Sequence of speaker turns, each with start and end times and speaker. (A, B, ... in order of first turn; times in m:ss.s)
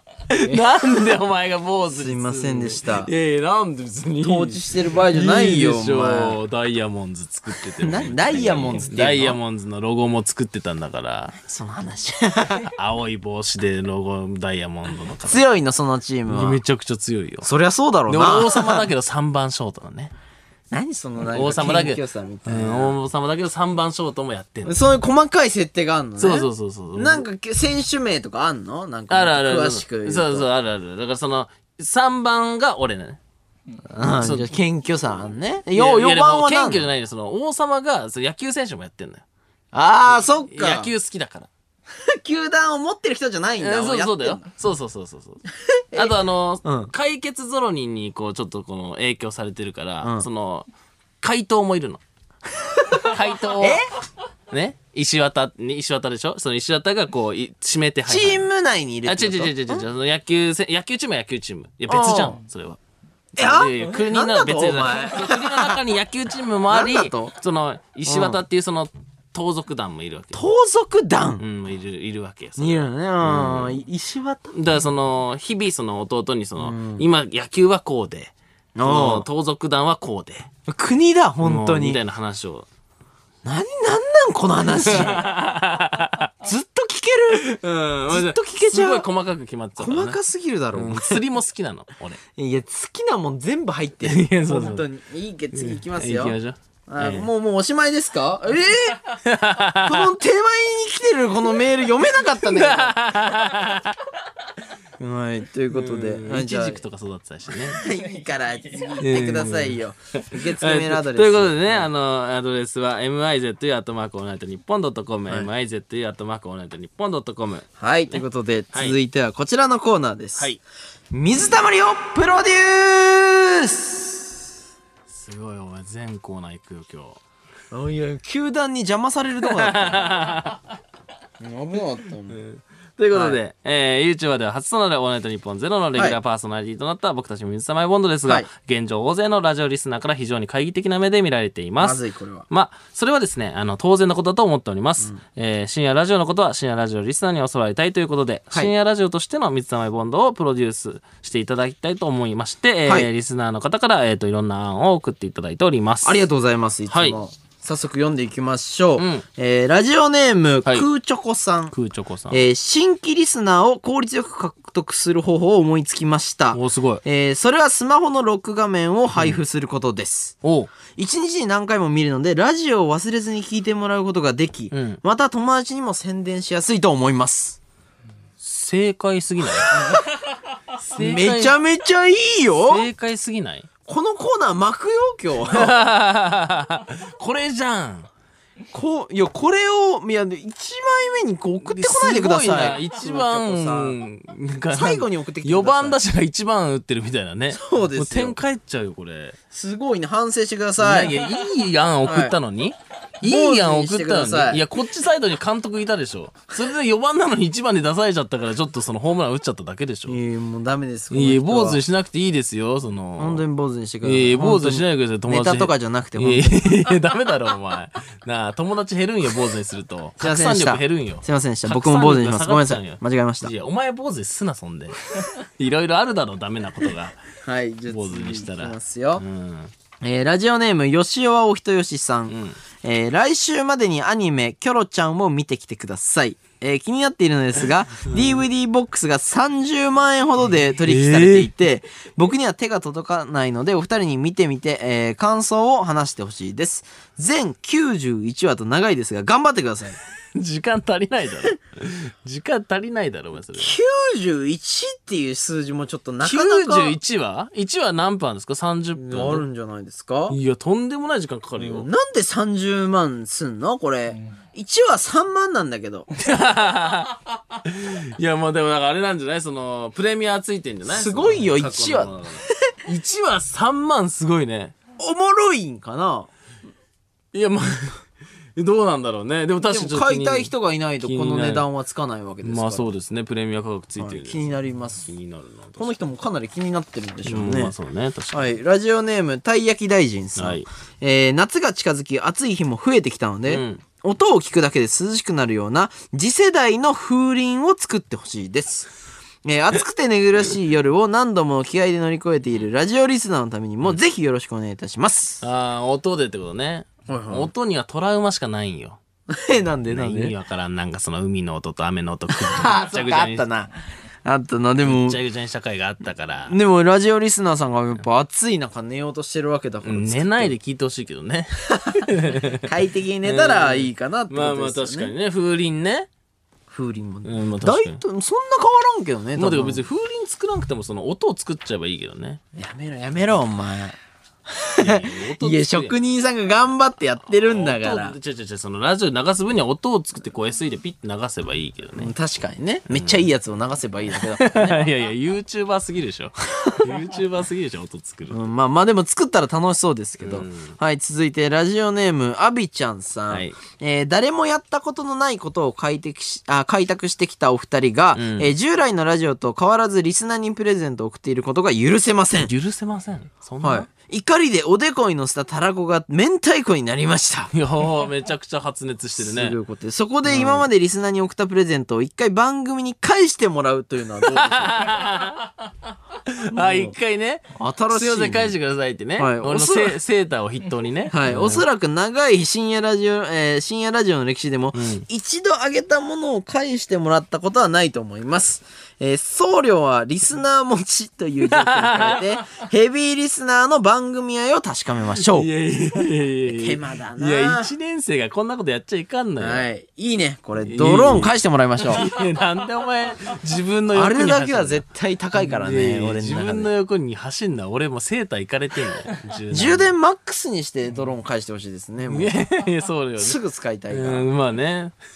0:00.3-0:11.4 A
0:01.9-0:03.1 B
0:04.2-0:06.4 B
0:07.8-0:09.4 B
0:11.4-0:12.7 B
0:12.7-0:15.4 A
0:15.2-0:16.6 B
0:16.3-0:17.5 A
0:17.4-0:18.9 B
0:18.1-0:20.1 A
0:20.7-0:23.0 B
0:21.3-0:24.8 A
0:24.6-0:30.5 B
0:26.2-0:27.3 A
0:29.1-0:33.2 A
0:33.9-0:36.9 B
0:34.1-0:34.5 A
0:35.7-0:39.2 A
0:39.7-0:40.9 B
0:40.1-0:41.5 A
0:42.0-0:44.4 B
0:43.6-0:45.4 A
0:45.8-0:46.9 B
0:45.9-0:50.7 A
0:50.0-0:50.3 B
0:51.2-0:52.0 A
0:52.6-0:53.8 B
0:53.0-0:53.8 A
0:54.5-0:58.4 A
0:58.1-0:59.8 B
0:59.1-1:02.8 A
1:01.9-1:02.4 B
1:03.4-1:05.8 B
1:03.4-1:10.4 A
1:06.7-1:07.4 B
1:08.1-1:08.4 B
1:10.3-1:11.4 B
1:11.4-1:13.8 A
1:12.6-1:14.6 B
1:14.5-1:18.3 A
1:16.6-1:17.0 B
1:18.8-1:19.3 B
1:18.8-1:20.5 A
1:20.7-1:22.0 B
1:21.4-1:22.7 A
1:23.4-1:25.3 B
1:24.7-1:26.3 A
1:26.4-1:27.6 B
1:27.3-1:30.2 A
1:28.1-1:29.0 B
1:29.8-1:31.2 B
1:30.7-1:32.2 A
1:32.4-1:36.4 B
1:34.0-1:34.9 A
1:35.5-1:37.3 A
1:36.9-1:39.0 B
1:39.2-1:40.1 A
1:39.8-1:43.0 B
1:42.4-1:44.0 A
1:45.0-1:46.8 B
1:45.7-1:47.8 A
1:47.5-1:51.9 B
1:49.0-1:58.2 A
1:57.8-2:00.5 B
2:00.4-2:00.6 A
2:01.1-2:04.4 B
2:05.1-2:07.2 A
2:07.7-2:10.2 B
2:09.4-2:10.6 A
2:11.4-2:12.4 B
2:12.3-2:36.2 A
2:13.1-2:13.4 B
2:21.8-2:22.5 B
2:36.0-2:41.7 B
2:36.9-2:37.2 A
2:39.0-2:39.2 A
2:41.7-2:42.4 A
2:42.3-2:50.4 B
2:46.5-2:47.0 A
2:49.2-2:49.4 A
2:50.4-2:50.7 A
2:50.9-2:57.6 B
2:54.7-2:55.0 A
2:58.4-2:59.8 A
2:59.6-3:00.2 B
3:00.8-3:01.5 A
3:01.0-3:02.9 B
3:02.6-3:03.7 A
3:03.9-3:05.8 B
3:05.4-3:08.1 A
3:08.7-3:14.0 B
3:11.6-3:19.4 A
3:14.7-3:16.0 B
3:17.5-3:18.4 B
3:19.5-3:21.2 B
3:20.8-3:30.2 A
3:22.0-3:22.4 B
3:23.2-3:24.7 B
3:30.1-3:31.8 B
3:31.1-3:33.4 A
3:33.2-3:36.7 B
3:34.0-3:47.2 A
3:40.2-3:43.5 B
3:47.4-3:49.2 B
3:47.9-3:49.7 A
3:50.0-4:10.0 B
3:52.3-3:52.6 A
3:58.1-3:58.4 A
4:00.9-4:01.5 A
4:10.4-4:13.8 A
4:13.6-4:17.0 B
4:16.2-4:19.4 A
4:19.0-4:20.4 B
4:20.3-4:21.9 A
4:21.6-4:26.1 B
4:26.2-4:34.8 A
4:30.9-4:32.7 B
4:35.0-4:36.3 B
4:37.3-4:38.0 A
4:38.6-4:41.7 A
4:39.7-4:42.9 B
4:42.4-4:46.0 A
4:44.0-4:45.1 B
4:45.8-4:47.7 B
4:47.3-4:48.5 A
4:48.3-4:58.9 B
4:50.4-4:50.7 A
4:53.5-4:53.8 A
4:59.4-5:05.4 B
5:05.4-5:09.0 A
5:07.1-5:07.5 B
5:09.3-5:10.4 B
5:09.9-5:13.5 A
5:12.3-5:15.2 B
5:14.8-5:16.6 A
5:16.5-5:20.6 B
5:19.8-5:26.1 A
5:22.6-5:25.1 B
5:26.7-5:29.8 B
5:27.2-5:28.0 A
5:29.4-5:32.4 A
5:32.6-5:38.2 B
5:34.8-5:36.0 A
5:37.4-5:42.1 A
5:42.0-5:44.8 B
5:42.9-5:43.2 A
5:44.1-5:48.4 A
5:48.3-6:02.5 B
5:50.2-5:50.8 A
5:53.3-5:53.6 A
5:58.1-5:58.5 A
6:02.4-6:03.9 A
6:03.6-6:07.5 B
6:07.5-6:09.6 A
6:09.2-6:14.9 B
6:10.3-6:10.7 A
6:14.2-6:15.6 A
6:16.2-6:21.6 A
6:16.5-6:16.9 B
6:17.5-6:18.5 B
6:19.2-6:20.0 B
6:21.1-6:35.5 B
6:24.7-6:25.0 A
6:31.5-6:32.4 A
6:35.2-6:39.7 A
6:36.5-6:37.7 B
6:39.4-6:42.1 B
6:40.6-6:44.8 A
6:43.9-6:46.7 B
6:45.5-6:49.9 A
6:49.5-6:52.4 B
6:52.1-6:53.4 A
6:53.2-6:54.3 B
6:53.9-6:55.0 A